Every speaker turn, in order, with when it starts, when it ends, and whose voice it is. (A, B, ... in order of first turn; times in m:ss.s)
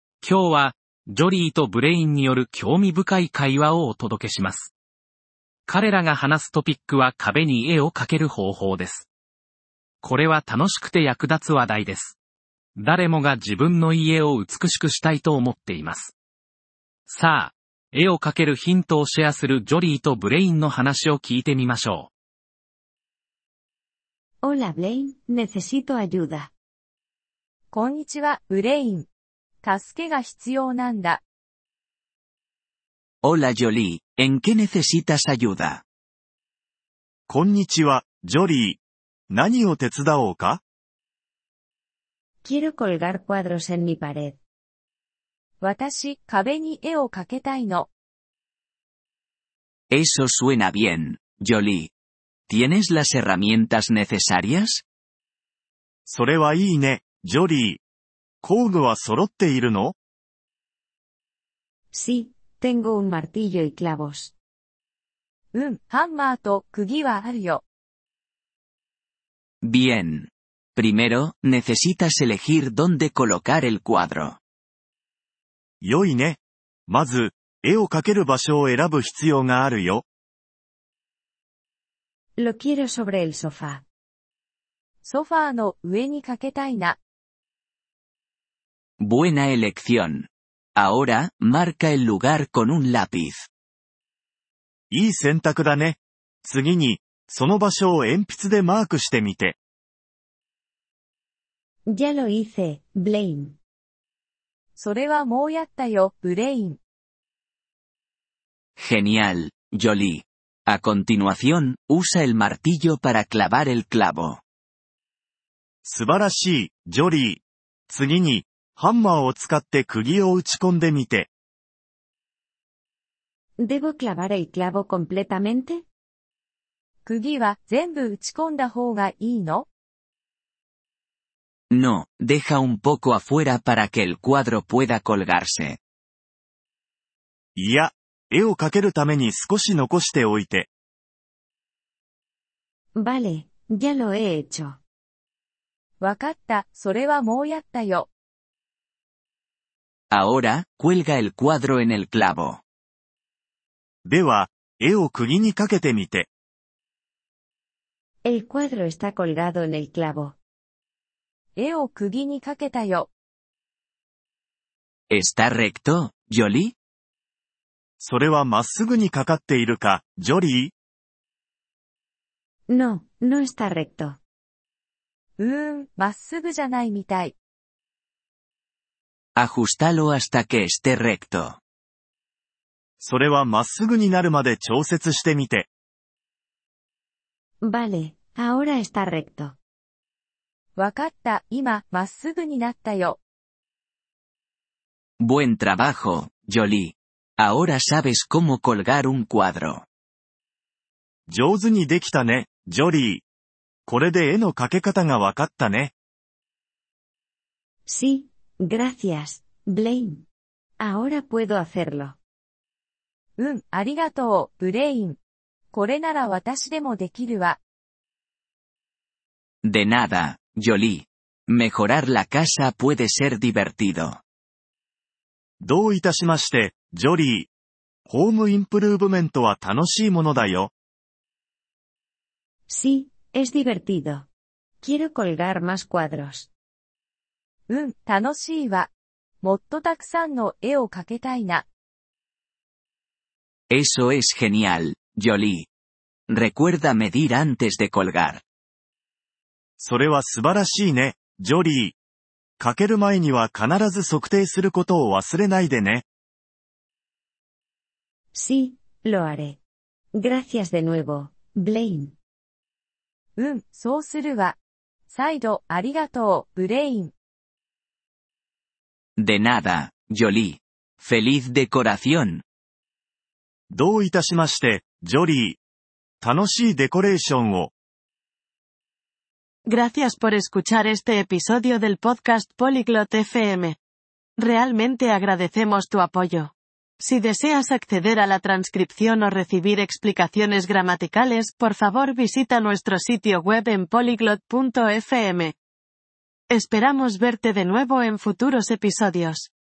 0:00.2-0:04.7 A
0:05.7-0:09.1 A
0:10.0-0:12.2 A
0:12.8-0:16.1 A
0:17.1-0:22.1 A
0:24.4-0:26.5 B
0:27.7-0:29.1 C
0:29.6-0:31.2 C
0:33.2-0:35.8 D
0:37.3-0:40.6 E
0:42.4-0:44.4 B
0:45.6-0:47.9 C
0:49.9-0:51.9 D
0:52.5-0:54.8 D
0:56.0-0:57.8 E
0:58.4-0:59.9 E
1:01.9-1:04.3 B
1:05.5-1:07.6 C
1:09.6-1:14.4 D
1:15.8-1:20.0 E
1:22.4-1:23.8 B
1:25.0-1:27.0 C
1:29.0-1:33.5 D
1:34.9-1:39.6 E
1:41.9-1:43.6 B
1:44.8-1:46.8 C
1:48.8-1:54.4 D
1:55.8-2:01.3 E
2:03.6-2:05.8 B
2:07.0-2:09.7 C
2:11.7-2:15.8 D
2:17.6-2:20.7 E
2:23.0-2:24.8 B
2:26.0-2:28.1 C
2:30.1-2:32.6 D
2:34.0-2:36.3 E
2:38.2-2:40.4 B
2:41.6-2:43.1 C
2:45.1-2:46.7 D
2:48.0-2:50.7 E
2:52.7-2:54.2 B
2:55.4-2:57.3 C
2:59.4-3:01.6 D
3:03.0-3:05.7 E
3:07.6-3:09.6 B
3:10.8-3:13.2 C
3:15.2-3:19.8 D
3:21.3-3:23.2 E
3:23.9-3:25.9 E
3:27.9-3:30.2 B
3:30.8-3:32.2 B
3:33.4-3:35.2 C
3:35.7-3:37.6 C
3:39.6-3:44.2 D
3:45.6-3:47.5 E
3:48.1-3:50.7 E
3:52.7-3:54.3 B
3:54.8-3:56.5 B
3:57.7-3:58.9 C
3:59.4-4:01.6 C
4:03.7-4:05.7 D
4:06.3-4:08.4 D
4:09.8-4:12.0 E
4:12.6-4:16.0 E
4:18.3-4:19.6 B
4:20.2-4:22.1 B
4:23.4-4:24.6 C
4:25.1-4:27.1 C
4:29.2-4:32.4 D
4:33.7-4:35.6 E
4:36.2-4:37.7 E
4:39.7-4:43.8 F
4:44.4-4:55.5 F
4:56.5-4:59.5 F